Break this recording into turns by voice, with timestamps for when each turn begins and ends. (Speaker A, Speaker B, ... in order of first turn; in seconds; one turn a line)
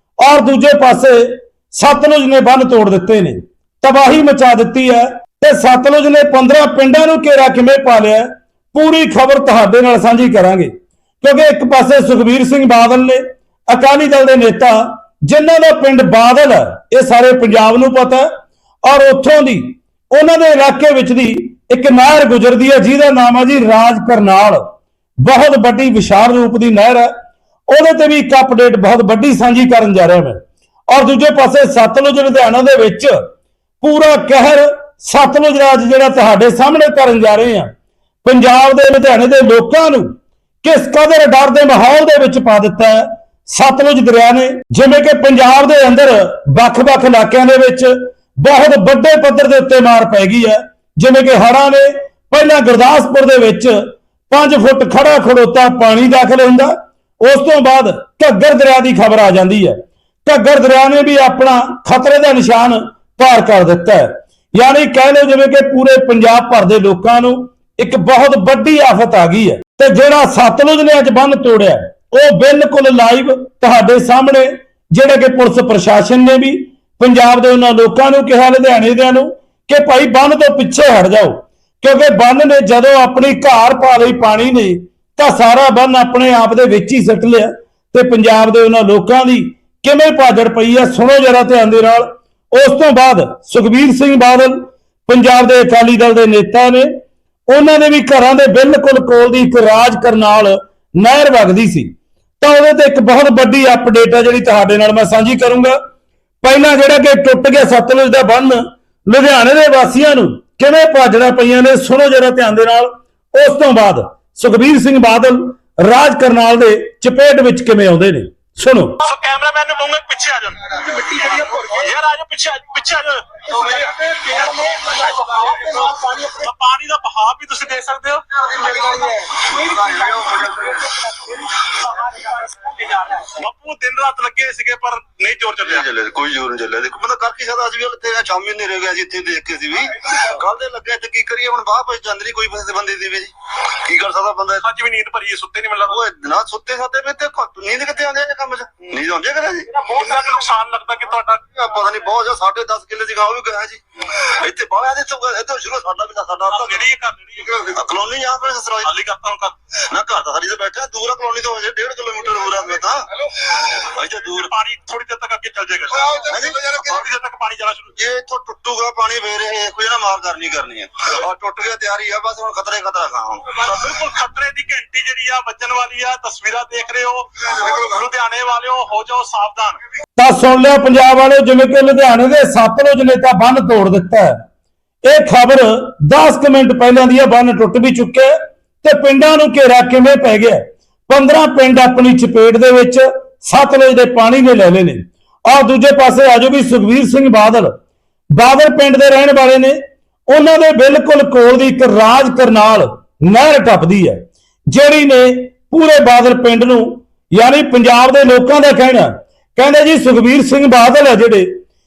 Speaker A: 0.2-10.7
Speaker A: 11.2-18.3
Speaker A: 18.9-24.6
Speaker A: 25.2-27.1
Speaker A: 27.7-30.4
Speaker A: 30.9-33.2
Speaker A: 33.8-37.7
Speaker A: 38.2-40.1
Speaker A: 40.6-59.7
Speaker A: 60.2-96.9
Speaker A: 97.5-105.8
Speaker A: 106.4-119.0
Speaker B: 119.0-128.5
Speaker C: 128.9-130.9
Speaker B: 132.0-135.8
Speaker C: 135.6-144.6
Speaker B: 144.6-146.0
Speaker C: 145.9-149.9
Speaker B: 149.8-151.4
Speaker C: 151.5-156.8
Speaker B: 156.5-157.6
Speaker C: 157.4-158.9
Speaker B: 158.8-159.6
Speaker C: 159.9-164.5
Speaker B: 164.2-168.0
Speaker C: 166.1-167.0
Speaker C: 168.0-173.6
Speaker B: 173.6-179.8
Speaker A: 180.2-184.3
Speaker A: 185.0-197.7
Speaker A: 198.3-204.2
Speaker A: 204.7-211.5